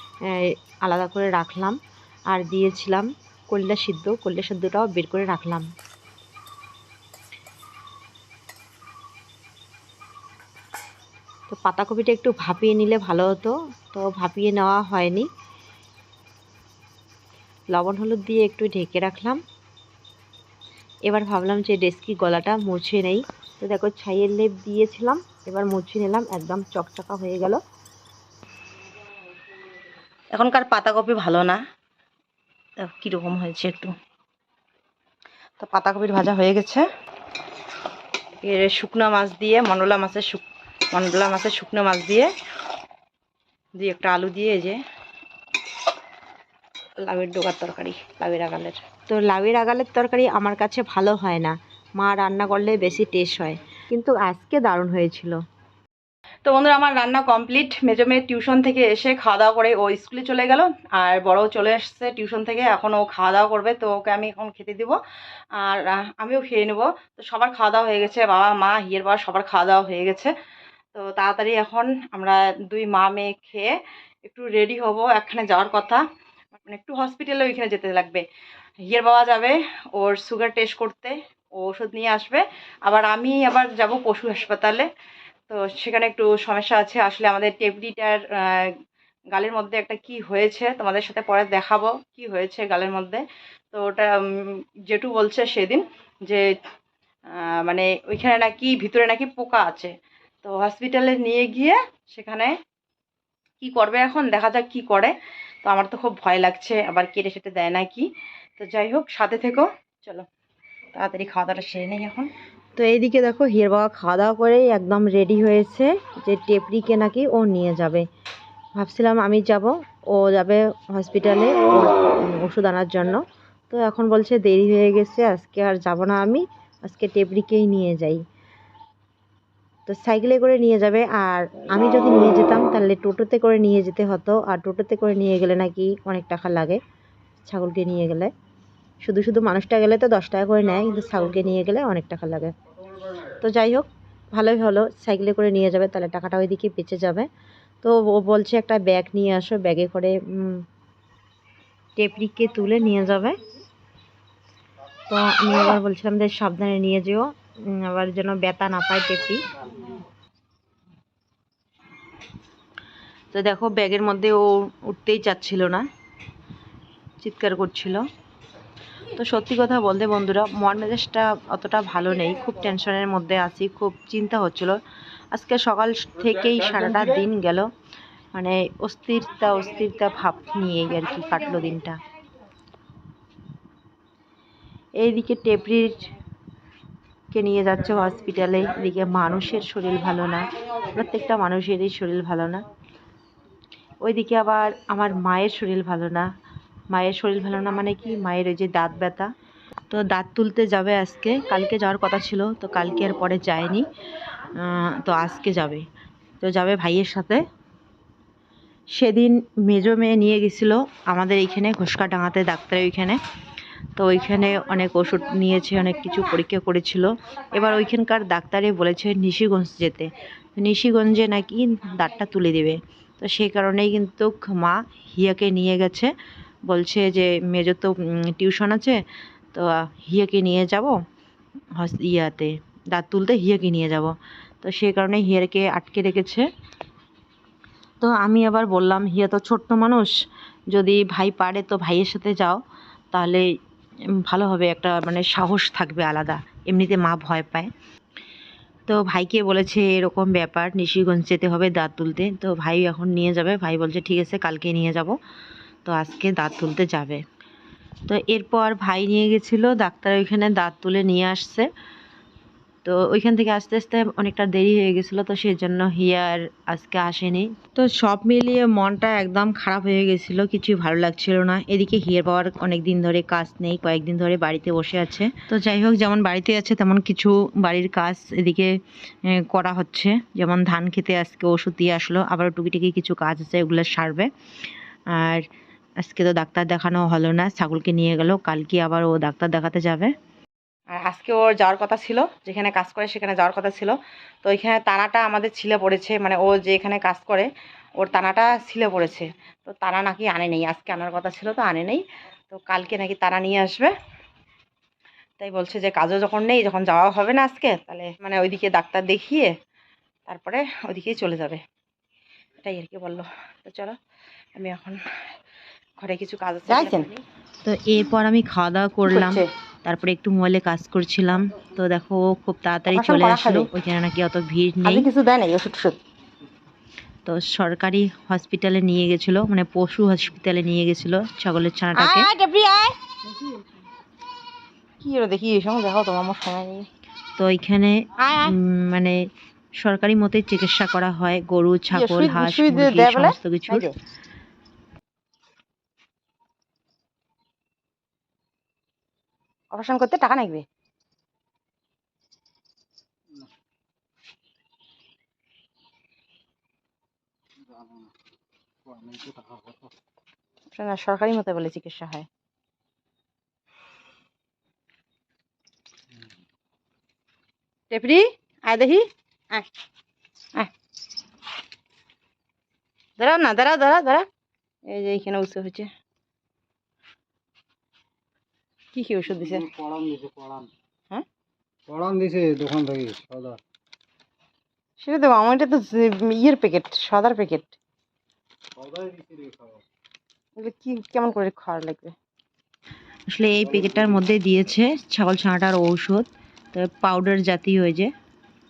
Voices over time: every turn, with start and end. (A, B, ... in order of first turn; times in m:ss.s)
0:00.3-0:01.8 A
0:02.3-0:05.7 A
0:11.5-0:15.3 A
0:17.7-0:19.4 A
0:21.1-0:27.6 A
0:30.3-0:31.6 B
0:32.8-0:33.9 B
0:35.6-0:36.8 B
0:38.4-0:42.3 B
0:43.8-0:44.8 B
0:47.0-0:48.8 B
0:49.1-0:55.4 A
0:56.4-1:05.0 B
1:05.6-1:10.3 B
1:10.9-1:13.7 B
1:14.2-1:16.0 B
1:16.6-1:18.2 B
1:18.8-1:24.9 B
1:25.5-1:28.7 B
1:29.3-1:36.4 B
1:37.3-1:42.6 B
1:43.6-1:50.2 B
1:50.9-1:52.3 B
1:52.8-1:58.0 A
1:58.8-2:08.2 A
2:09.9-2:16.8 A
2:17.4-2:18.3 A
2:19.0-2:22.5 A
2:23.4-2:27.3 A
2:27.8-2:30.6 A
2:32.0-2:33.4 A
2:35.1-2:39.4 A
2:43.3-2:45.8 A
2:47.2-2:48.0 A
2:49.1-2:54.8 A
2:55.3-2:57.7 A
2:58.3-3:02.0 A
3:05.0-3:06.1 A
3:07.3-3:12.6 A
3:14.0-3:16.2 A
3:16.9-3:19.3 A
3:19.9-3:23.9 A
3:24.6-3:25.8 A
3:26.4-3:27.4 A
3:28.9-3:33.2 A
3:34.0-3:46.1 A
3:46.7-3:49.0 A
3:49.5-3:50.9 A
3:51.8-3:54.1 A
3:54.6-3:56.4 A
3:58.0-4:00.1 A
4:00.7-4:02.6 A
4:03.1-4:03.4 A
4:04.3-4:07.7 A
4:08.9-4:15.1 A
4:15.8-4:17.2 A
4:18.1-4:21.7 A
4:22.8-4:38.7 A
4:39.4-4:44.3 A
4:45.1-4:45.4 A
4:46.0-4:50.1 A
4:50.9-5:03.9 B
5:05.4-5:09.5 B
5:10.3-5:11.6 B
5:12.6-5:14.0 B
5:14.6-5:15.3 B
5:16.0-5:17.1 B
5:16.7-5:25.1 A
5:19.0-5:19.5 B
5:22.9-5:23.7 B
5:24.8-5:26.0 B
5:27.2-5:32.3 A
5:32.0-5:33.6 B
5:35.0-5:36.9 B
5:37.4-5:39.2 A
5:38.2-5:38.5 B
5:39.8-5:43.9 A
5:41.9-5:43.9 B
5:49.7-5:50.6 B
5:59.0-5:59.7 C
6:00.7-6:02.3 B
6:07.9-6:09.6 B
6:13.2-6:14.3 B
6:14.8-6:15.9 B
6:18.9-6:19.7 B
6:22.0-6:23.5 C
6:25.0-6:27.7 B
6:30.6-6:32.1 B
6:33.3-6:38.1 A